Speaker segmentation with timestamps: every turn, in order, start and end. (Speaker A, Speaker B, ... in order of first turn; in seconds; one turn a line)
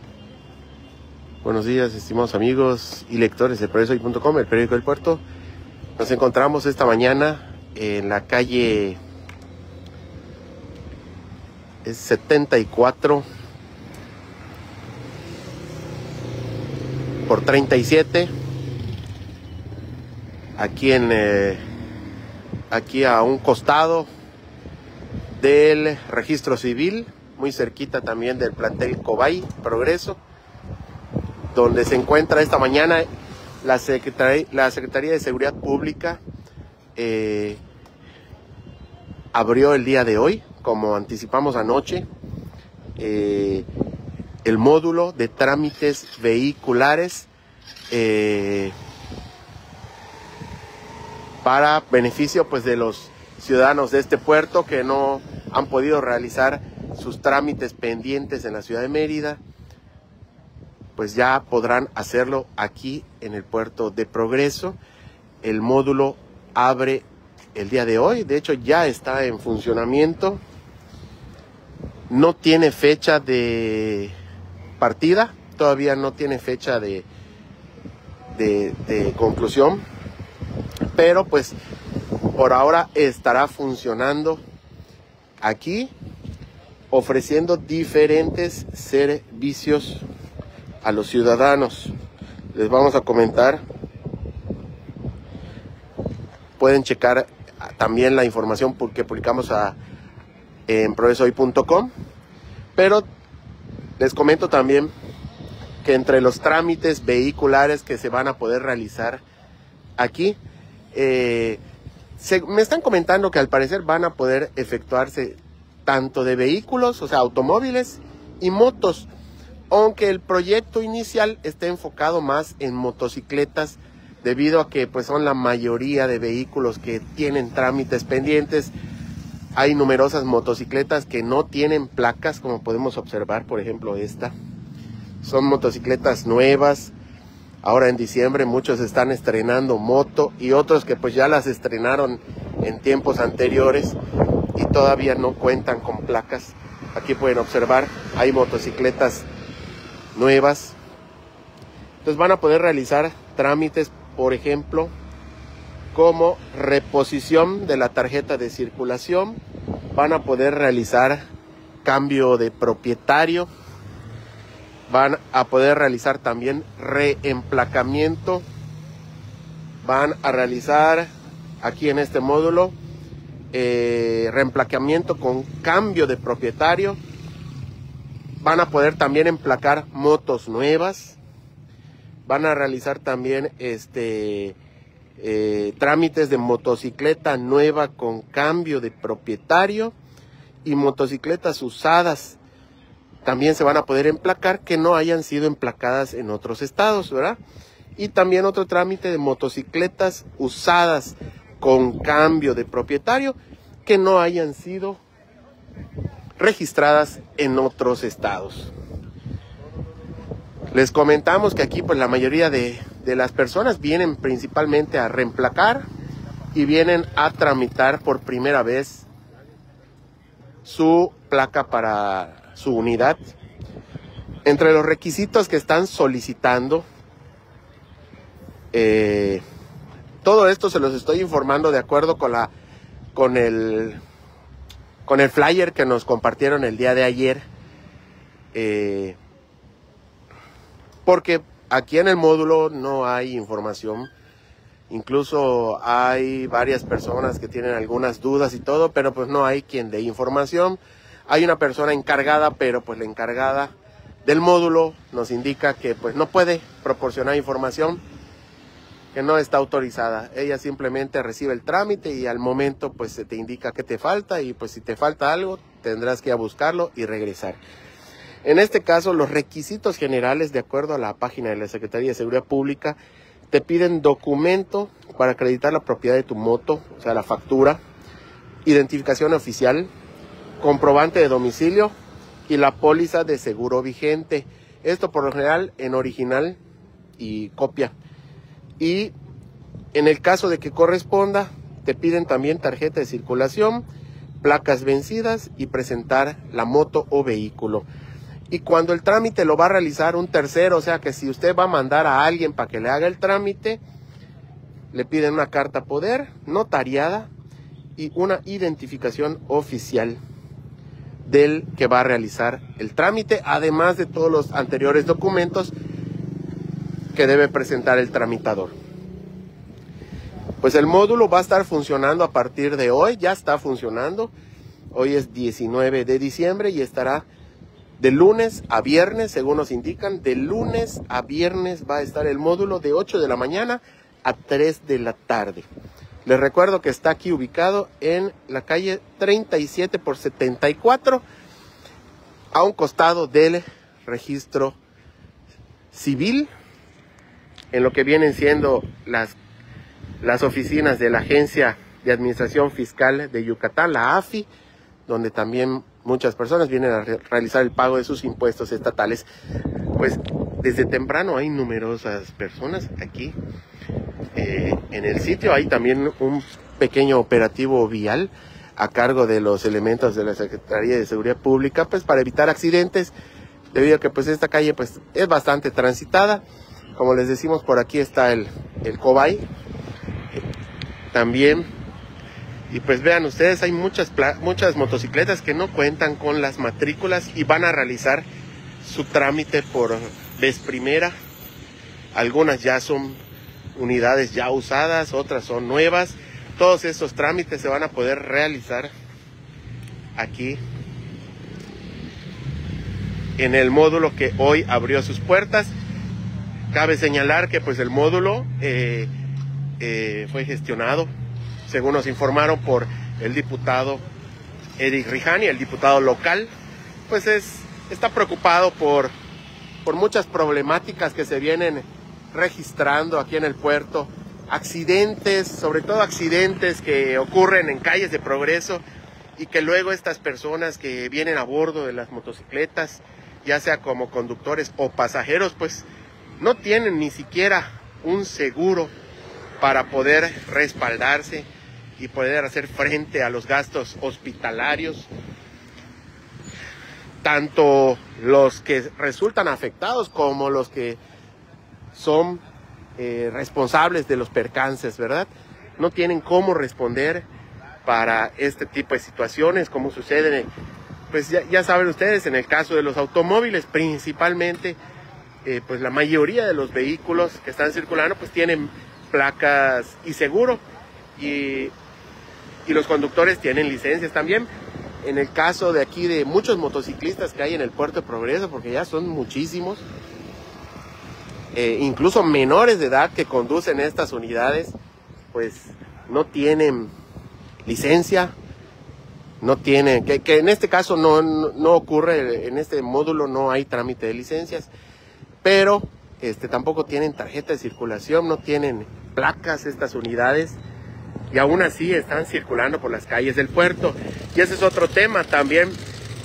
Speaker A: 1.4-5.2
Speaker A: 6.0-9.0
Speaker A: 11.8-13.2
Speaker A: 17.3-18.3
Speaker A: 20.6-21.6
Speaker A: 22.7-24.1
Speaker A: 25.4-30.2
Speaker A: 31.5-33.1
Speaker A: 33.6-36.2
Speaker A: 37.0-37.6
Speaker A: 39.3-42.0
Speaker A: 43.0-43.7
Speaker A: 44.5-47.3
Speaker A: 47.9-48.7
Speaker A: 51.4-59.4
Speaker A: 61.0-64.8
Speaker A: 65.4-70.4
Speaker A: 72.1-74.1
Speaker A: 74.8-77.1
Speaker A: 78.3-79.8
Speaker A: 80.9-81.6
Speaker A: 82.3-84.4
Speaker A: 85.4-85.9
Speaker A: 86.9-90.0
Speaker A: 90.8-91.9
Speaker A: 92.5-93.6
Speaker A: 96.6-99.8
Speaker A: 100.7-101.9
Speaker A: 102.8-103.1
Speaker A: 104.0-104.9
Speaker A: 105.8-109.2
Speaker A: 110.0-110.4
Speaker A: 110.9-111.6
Speaker A: 112.2-119.1
Speaker A: 119.7-128.7
Speaker A: 129.6-134.3
Speaker A: 135.2-136.9
Speaker A: 137.6-144.0
Speaker A: 144.6-149.3
Speaker A: 150.2-150.8
Speaker A: 152.0-154.9
Speaker A: 155.9-159.4
Speaker A: 159.9-161.2
Speaker A: 161.8-163.5
Speaker A: 164.9-168.4
Speaker A: 169.8-171.1
Speaker A: 171.6-172.8
Speaker A: 173.5-177.0
Speaker A: 178.4-181.2
Speaker A: 182.3-184.6
Speaker A: 185.2-189.9
Speaker A: 190.7-192.4
Speaker A: 193.2-197.4
Speaker A: 198.0-205.0
Speaker A: 206.4-208.7
Speaker A: 210.7-215.8
Speaker A: 216.5-219.1
Speaker A: 220.6-223.2
Speaker A: 224.4-226.8
Speaker A: 228.7-229.4
Speaker A: 230.2-232.5
Speaker A: 233.1-234.0
Speaker A: 235.1-237.4
Speaker A: 238.5-239.2
Speaker A: 241.1-244.1
Speaker A: 244.9-253.7
Speaker A: 254.2-258.0
Speaker A: 259.1-267.6
Speaker A: 268.4-273.0
Speaker A: 273.5-277.8
Speaker A: 278.6-279.9
Speaker A: 280.6-281.9
Speaker A: 282.5-286.6
Speaker A: 287.2-287.9
Speaker A: 288.8-289.1
Speaker A: 289.9-293.9
Speaker A: 294.4-297.9
Speaker A: 298.5-303.8
Speaker A: 304.9-307.3
Speaker A: 308.0-310.2
Speaker A: 311.2-315.7
Speaker A: 317.1-318.7
Speaker A: 320.6-324.3
Speaker A: 324.9-327.3
Speaker A: 328.0-335.7
Speaker A: 336.2-341.2
Speaker A: 342.5-344.8
Speaker A: 345.9-346.5
Speaker A: 347.7-349.4
Speaker A: 350.2-354.5
Speaker A: 355.1-359.3
Speaker A: 360.0-363.4
Speaker A: 364.4-373.1
Speaker A: 373.7-376.4
Speaker A: 376.9-379.4
Speaker A: 381.1-381.7
Speaker A: 382.7-388.2
Speaker A: 388.8-391.1
Speaker A: 392.1-393.2
Speaker A: 393.8-398.9
Speaker A: 400.1-400.6
Speaker A: 403.4-405.7
Speaker A: 406.7-409.1
Speaker A: 409.8-411.1
Speaker A: 411.7-414.0
Speaker A: 414.8-416.5
Speaker A: 417.1-419.1
Speaker A: 419.8-428.8
Speaker A: 429.4-435.9
Speaker A: 436.4-438.9
Speaker A: 439.6-445.1
Speaker A: 447.2-451.0
Speaker A: 451.9-452.4
Speaker A: 453.0-457.3
Speaker A: 457.9-460.5
Speaker A: 461.1-464.8
Speaker A: 465.4-470.6
Speaker A: 471.2-471.7
Speaker A: 472.7-474.5
Speaker A: 475.0-479.9
Speaker A: 481.6-484.8
Speaker A: 485.3-486.9
Speaker A: 487.7-488.3
Speaker A: 489.4-494.7
Speaker A: 495.4-500.6
Speaker A: 501.3-505.8